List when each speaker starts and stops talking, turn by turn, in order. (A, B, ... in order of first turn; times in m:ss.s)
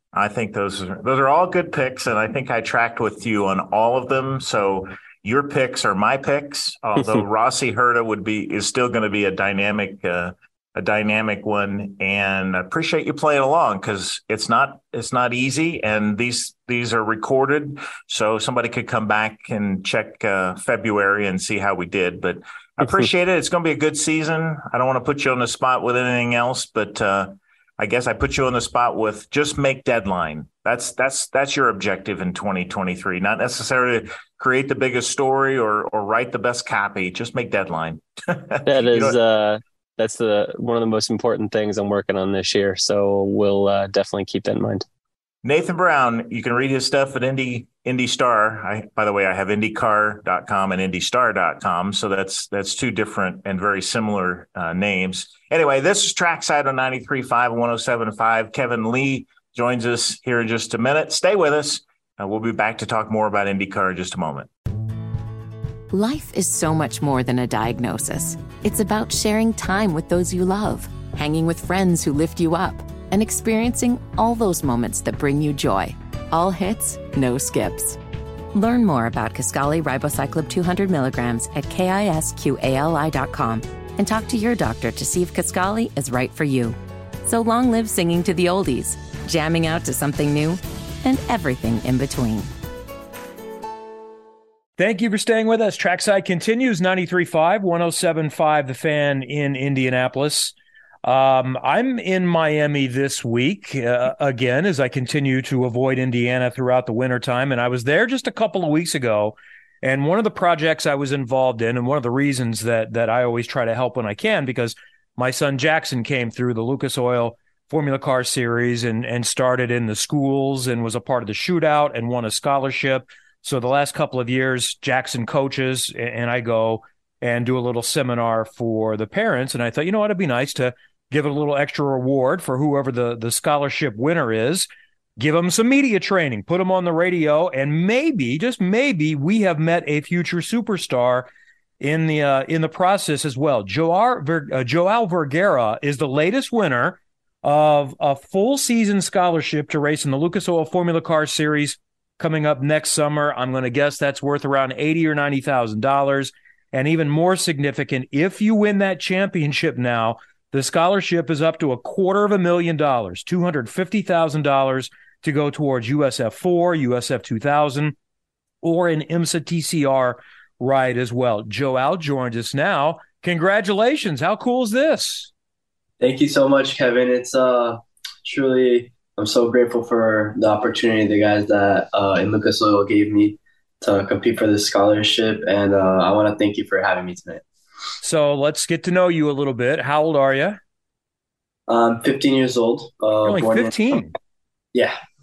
0:00.1-0:39.2 A
0:07.0-0:07.2 B
0:22.8-0:23.1 B
0:38.6-0:44.8 B
0:45.4-1:04.5 A
1:05.9-1:18.0 C
1:18.5-1:32.5 C
1:34.8-2:21.3 D
2:21.8-2:47.9 D
2:48.6-2:55.3 D
2:56.0-3:07.4 E
3:08.0-3:10.6 D
3:11.7-3:14.0 E
3:13.2-3:14.1 D